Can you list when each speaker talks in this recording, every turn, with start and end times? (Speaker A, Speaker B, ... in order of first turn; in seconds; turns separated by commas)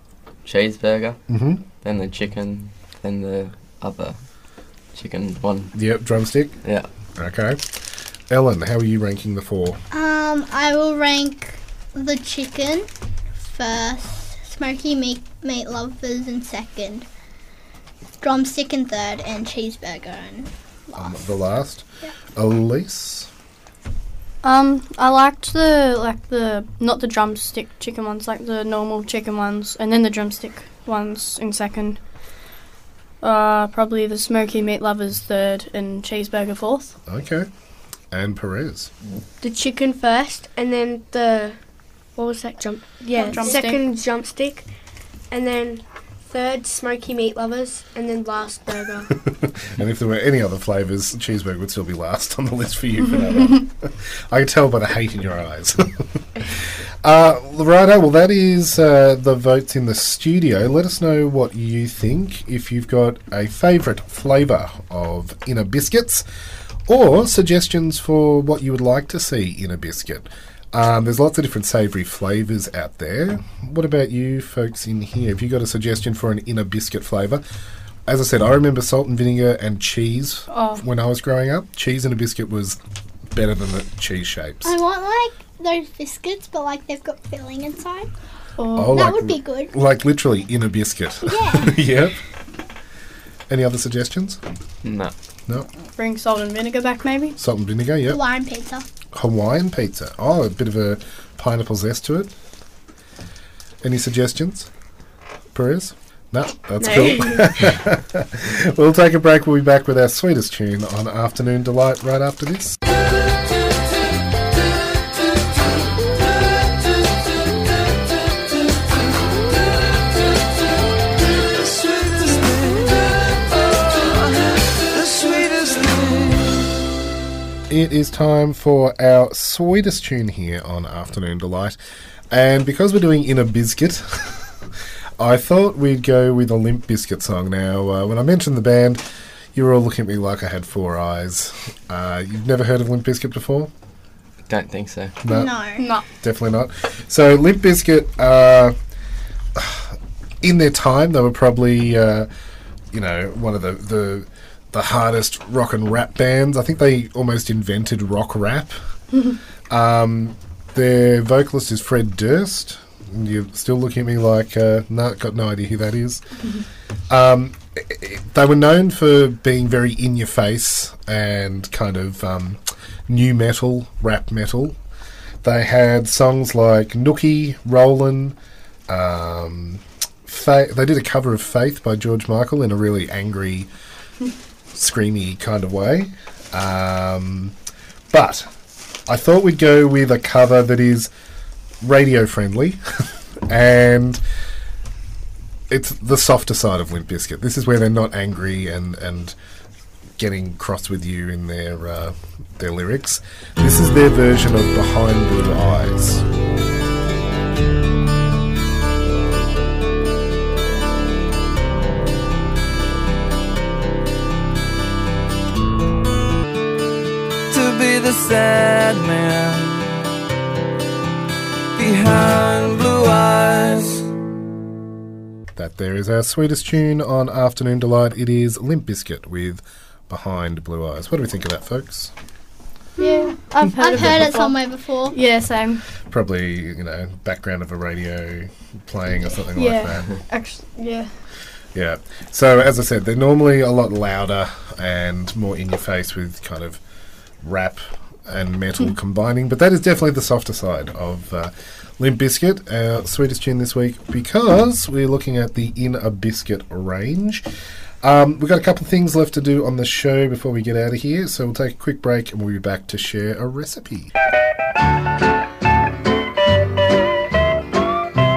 Speaker A: 0.4-1.2, Speaker B: 1.3-1.6, Speaker A: 1.8-4.2, Speaker A: 4.9-5.7, Speaker B: 5.7-6.5, Speaker B: 7.2-7.6, Speaker B: 8.3-9.8, Speaker C: 9.9-12.9, Speaker C: 13.4-17.1, Speaker C: 18.2-21.3, Speaker B: 20.9-21.8, Speaker B: 22.4-23.3, Speaker D: 24.4-32.0, Speaker D: 33.2-36.9, Speaker B: 37.1-37.5, Speaker B: 38.1-38.9, Speaker E: 39.4-41.6, Speaker E: 42.1-44.6, Speaker C: 43.2-43.6, Speaker D: 43.2-43.8, Speaker E: 45.3-49.1, Speaker B: 49.6-66.2, Speaker B: 66.9-77.4, Speaker B: 78.1-82.8, Speaker D: 80.5-80.8, Speaker B: 83.3-84.7, Speaker C: 84.6-88.1, Speaker D: 88.6-89.1, Speaker B: 88.7-92.2, Speaker C: 88.8-89.7, Speaker C: 91.2-91.8, Speaker B: 93.5-94.4, Speaker A: 94.8-95.1, Speaker D: 96.0-97.3, Speaker B: 97.4-98.2, Speaker C: 98.1-98.9, Speaker B: 99.1-102.3, Speaker B: 103.8-104.7, Speaker B: 105.5-112.8, Speaker E: 106.8-107.5, Speaker F: 113.5-114.0, Speaker F: 116.0-126.7, Speaker B: 127.7-131.8, Speaker B: 132.3-134.5, Speaker B: 135.2-139.0, Speaker B: 139.5-143.7, Speaker A: 144.5-145.1, Speaker B: 145.2-145.5, Speaker C: 145.3-145.8, Speaker D: 145.8-146.0, Speaker B: 146.2-148.7, Speaker B: 149.5-152.3, Speaker B: 152.9-158.8, Speaker B: 159.7-166.2, Speaker B: 167.1-174.8, Speaker B: 175.4-178.3, Speaker B: 178.9-183.7, Speaker B: 184.7-187.6, Speaker B: 188.1-188.5, Speaker B: 189.1-191.1, Speaker B: 191.8-194.2, Speaker B: 195.7-199.3, Speaker B: 200.2-206.2, Speaker F: 217.5-219.8, Speaker F: 221.8-224.0, Speaker B: 225.6-232.1, Speaker D: 233.0-234.6, Speaker C: 233.0-235.2, Speaker D: 235.1-235.8, Speaker B: 236.1-240.1, Speaker D: 239.6-241.1, Speaker B: 241.7-246.8, Speaker B: 247.4-257.4, Speaker B: 258.0-264.1